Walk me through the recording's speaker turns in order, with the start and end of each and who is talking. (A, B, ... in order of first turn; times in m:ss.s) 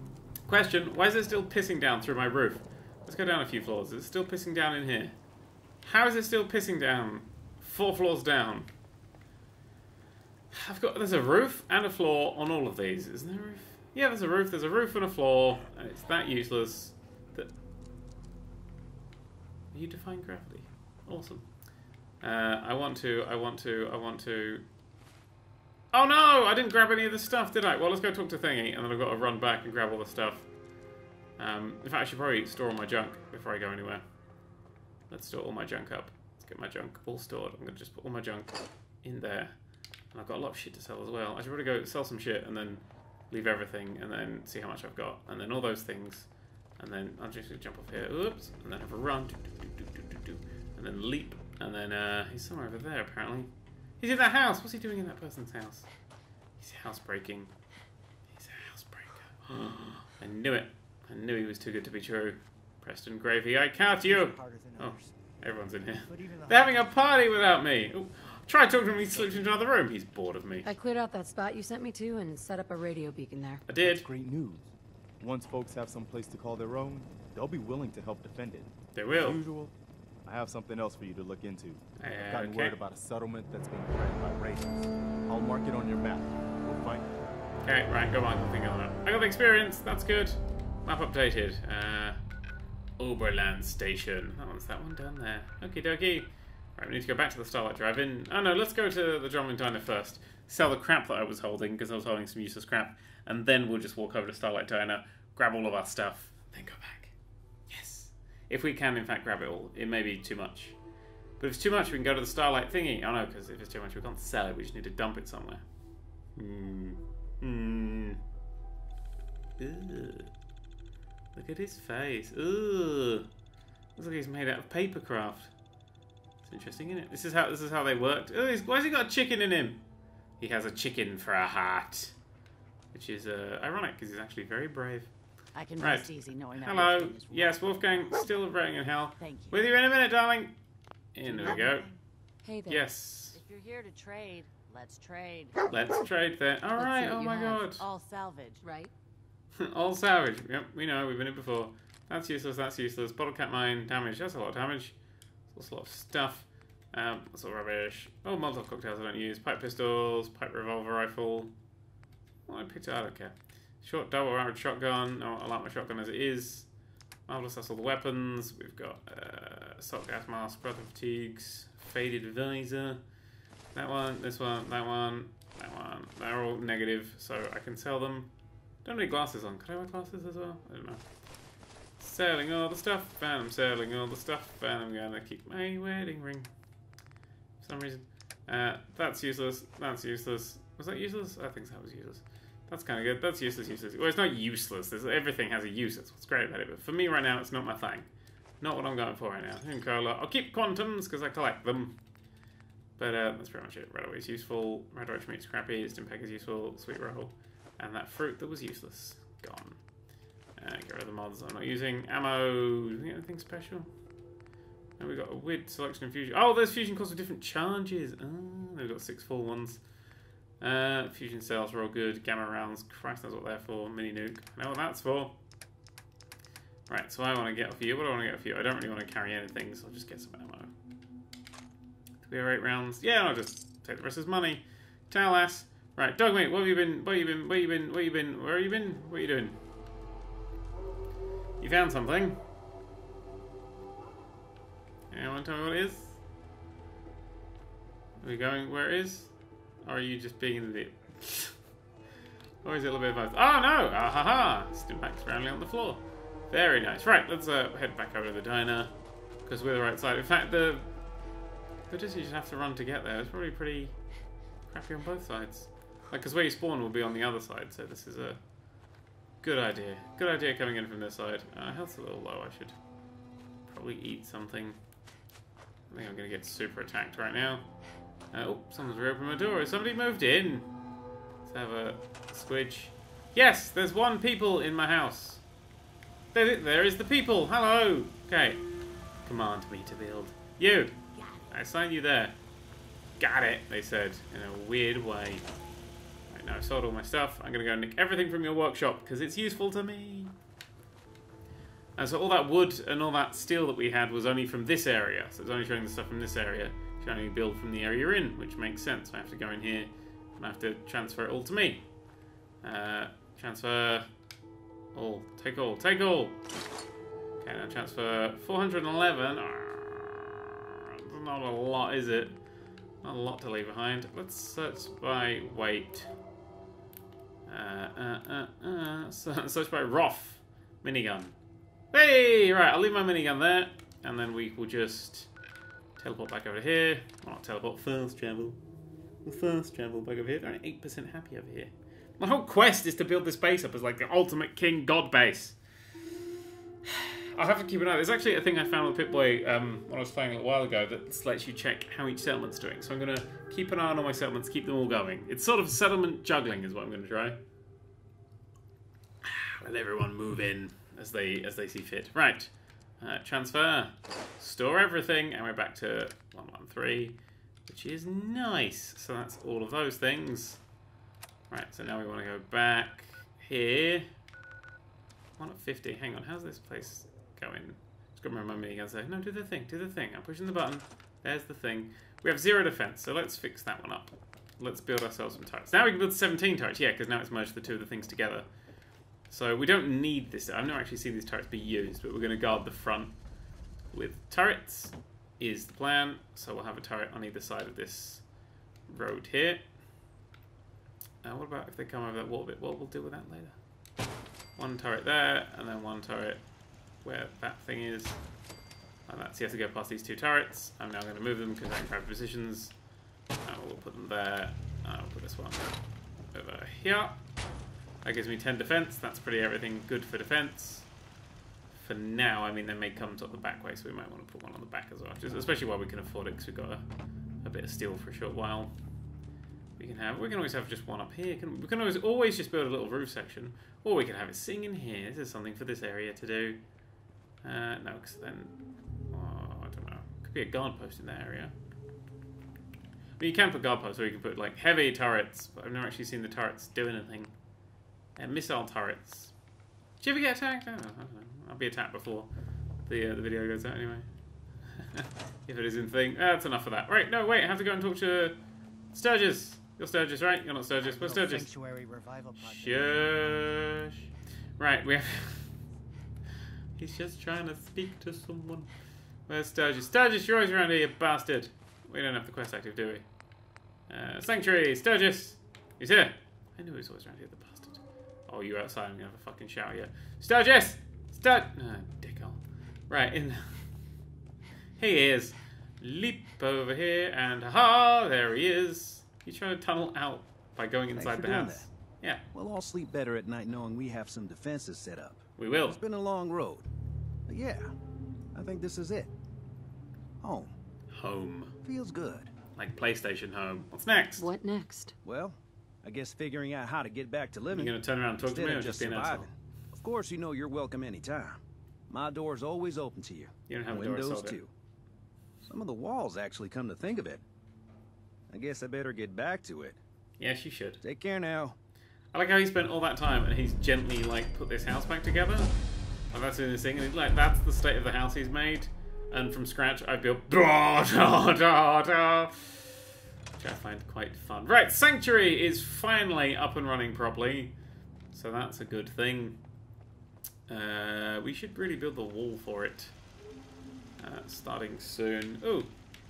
0:00.5-0:05.2 A
0:05.8-0:08.7 A
0:10.5-0:17.5 A
0:19.7-0:21.6 A
0:22.2-0:24.6 A
0:25.9-0:30.5 A
0:31.4-0:34.0 A
0:35.1-0:39.6 A
0:40.1-0:55.9 A
0:56.6-0:57.5 A
0:58.3-1:10.7 A
1:04.5-1:04.8 B
1:10.6-1:13.6 C
1:13.7-1:14.1 A
1:13.8-1:19.7 D
1:19.0-1:19.4 A
1:20.2-1:27.1 D
1:22.0-1:22.8 A
1:27.6-1:32.2 A
1:33.0-1:47.2 A
1:47.7-1:50.8 A
1:51.4-1:55.6 A
1:56.4-1:58.2 A
1:59.6-2:00.3 A
2:01.4-2:03.3 A
2:04.0-2:05.5 A
2:06.4-2:09.8 A
2:10.4-2:12.1 A
2:12.9-2:15.1 A
2:15.5-2:18.1 E
2:15.8-2:20.6 A
2:19.2-2:19.6 E
2:21.1-2:21.9 A
2:21.3-2:22.0 E
2:22.4-2:22.9 C
2:22.7-2:23.4 A
2:23.3-2:25.6 E
2:25.7-2:27.8 A
2:26.8-2:27.6 C
2:27.0-2:28.6 E
2:28.6-2:28.9 C
2:29.6-2:35.0 A
2:35.5-2:41.5 A
2:42.5-2:46.7 A
2:47.3-2:53.0 A
2:53.7-2:58.3 A
2:58.8-3:01.0 A
3:02.0-3:06.5 A
3:07.6-3:18.1 A
3:18.6-3:22.0 A
3:23.0-3:29.8 A
3:30.6-3:33.9 A
3:35.0-3:39.8 A
3:40.6-3:45.4 A
3:46.9-3:50.7 A
3:52.2-3:59.6 A
4:01.6-4:02.4 A
4:05.1-4:06.2 A
4:08.2-4:11.6 A
4:12.6-4:18.9 A
4:19.4-4:20.9 A
4:21.9-4:24.0 A
4:24.6-4:28.4 A
4:29.4-4:32.8 A
4:33.7-4:34.8 A
4:35.9-4:37.7 A
4:38.3-4:40.7 A
4:41.4-4:45.4 A
4:46.3-4:48.6 A
4:49.2-4:51.0 A
4:51.5-4:52.4 A
4:53.2-4:55.5 A
4:56.3-5:00.3 A
5:02.0-5:11.9 A
5:12.6-5:14.1 A
5:14.9-5:16.4 A
5:17.4-5:22.4 A
5:23.0-5:26.1 A
5:27.5-5:31.4 A
5:31.9-5:35.3 A
5:36.0-5:38.6 A
5:39.2-5:45.6 A
5:46.9-5:57.4 A
5:59.2-6:10.6 A
6:11.5-6:14.1 A
6:15.4-6:28.5 A
6:29.3-6:33.2 A
6:33.9-6:38.3 A
6:38.9-6:39.7 A
6:41.2-6:43.6 A
6:44.6-6:46.4 A
6:47.0-6:48.2 A
6:49.1-6:52.8 A
6:53.4-6:55.8 A
6:56.3-6:57.2 A
6:58.0-7:00.9 A
7:01.7-7:06.8 A
7:07.4-7:08.7 A
7:09.8-7:16.6 A
7:17.4-7:18.5 A
7:19.1-7:21.5 A
7:23.2-7:27.3 A
7:28.2-7:29.3 A
7:30.0-7:32.3 A
7:32.9-7:34.1 A
7:34.8-7:38.4 A
7:38.9-7:41.5 A
7:41.0-7:42.9 B
7:42.4-7:44.0 A
7:44.6-7:45.5 A
7:46.8-7:48.7 A
7:49.3-7:53.1 A
7:53.9-8:03.6 A
8:04.8-8:12.2 A
8:10.9-8:11.7 F
8:12.3-8:16.7 F
8:15.4-8:15.8 A
8:17.3-8:17.7 F
8:18.3-8:19.1 F
8:20.2-8:20.5 F
8:20.9-8:21.5 A
8:21.6-8:22.3 F
8:22.6-8:24.3 A
8:24.2-8:25.0 C
8:25.0-8:34.5 F
8:27.5-8:29.3 A
8:33.5-8:34.4 A
8:35.5-8:37.2 F
8:38.3-8:39.8 F
8:40.2-8:40.8 A
8:40.8-8:41.6 F
8:42.1-8:45.5 A
8:46.1-8:52.8 A
8:53.4-8:57.5 A
8:58.1-8:59.4 A
9:00.5-9:02.9 A
9:04.0-9:05.7 A